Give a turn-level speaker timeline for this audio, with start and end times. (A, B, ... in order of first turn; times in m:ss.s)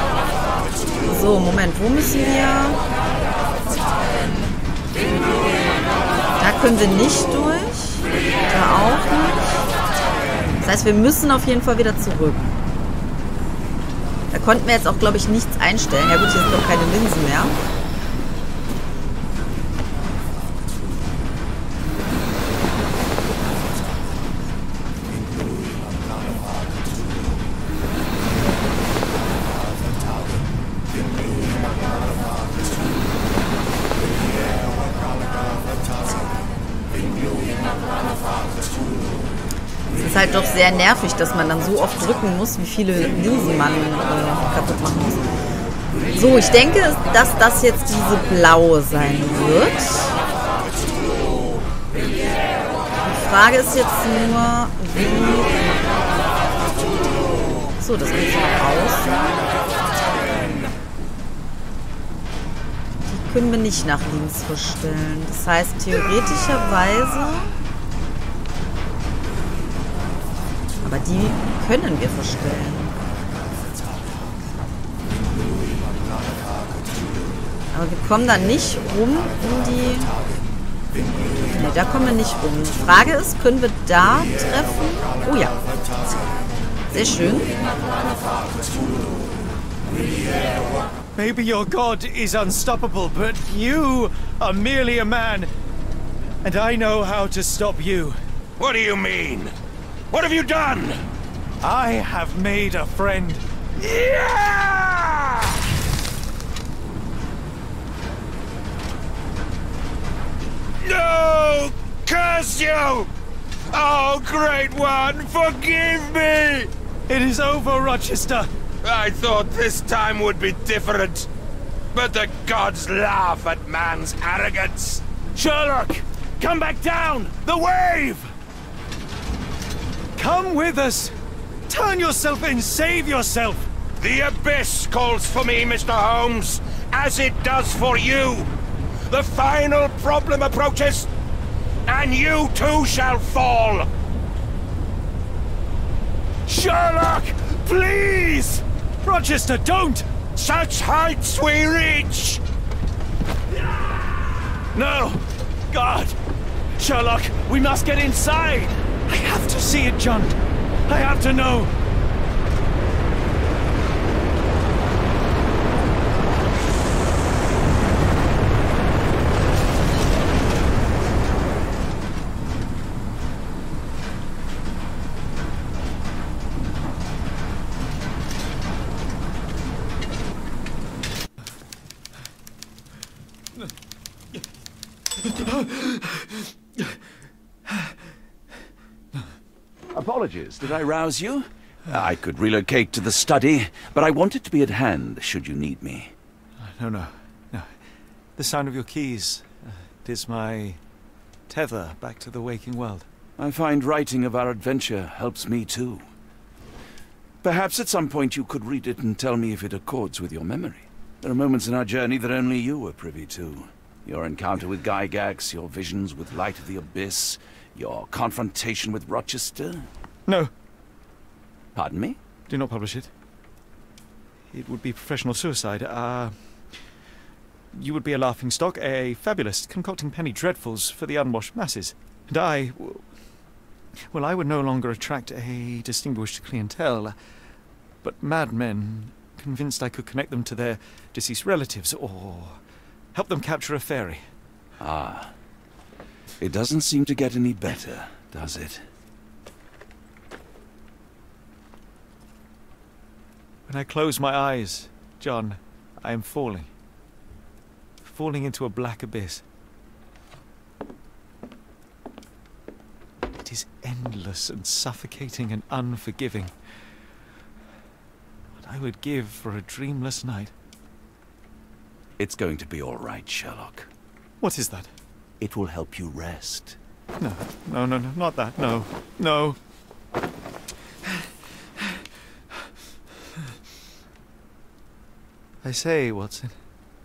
0:01.0-0:02.8 A
0:06.4-0:09.7 A
0:10.6-0:12.6 A
0:14.3-0:17.5 A
0:40.0-0:45.2 A
0:46.1-0:50.2 A
0:53.0-0:55.5 A
0:57.8-0:59.5 A
1:03.1-1:07.6 A
1:10.8-1:12.9 A
1:17.7-1:20.1 A
1:21.5-1:25.6 A
1:26.9-1:27.5 A
1:31.1-1:35.5 B
1:36.4-1:38.2 B
1:38.6-1:39.5 C
1:40.1-1:41.0 C
1:41.6-1:43.4 B
1:43.8-1:45.6 C
1:50.8-1:53.1 C
1:53.7-1:56.7 C
1:57.1-1:58.5 B
1:58.8-2:01.3 C
2:01.9-2:08.3 C
2:10.2-2:11.2 B
2:11.7-2:13.7 B
2:14.0-2:18.5 C
2:19.1-2:21.1 C
2:21.8-2:23.9 C
2:26.5-2:28.6 C
2:29.0-2:30.1 B
2:30.3-2:32.4 C
2:34.7-2:36.1 B
2:36.8-2:40.4 B
2:40.9-2:41.7 B
3:05.3-3:06.8 B
3:07.7-3:07.9 B
3:09.9-3:16.1 D
3:16.6-3:17.7 B
3:18.4-3:20.8 B
3:21.5-3:23.1 B
3:23.4-3:26.1 D
3:27.4-3:39.9 D
3:41.7-3:42.2 D
3:42.5-3:43.1 B
3:44.5-3:46.6 B
3:47.7-3:53.1 B
3:54.1-3:57.2 B
3:58.0-4:02.6 B
4:03.1-4:04.2 B
4:04.8-4:05.3 D
4:06.4-4:08.8 D
4:13.7-4:16.7 B
4:18.0-4:19.4 B
4:23.4-4:26.6 B
4:28.6-4:30.5 B
4:32.2-4:33.9 D
4:34.4-4:34.9 B
4:35.4-4:36.8 D
4:37.2-4:39.6 B
4:45.6-4:46.6 B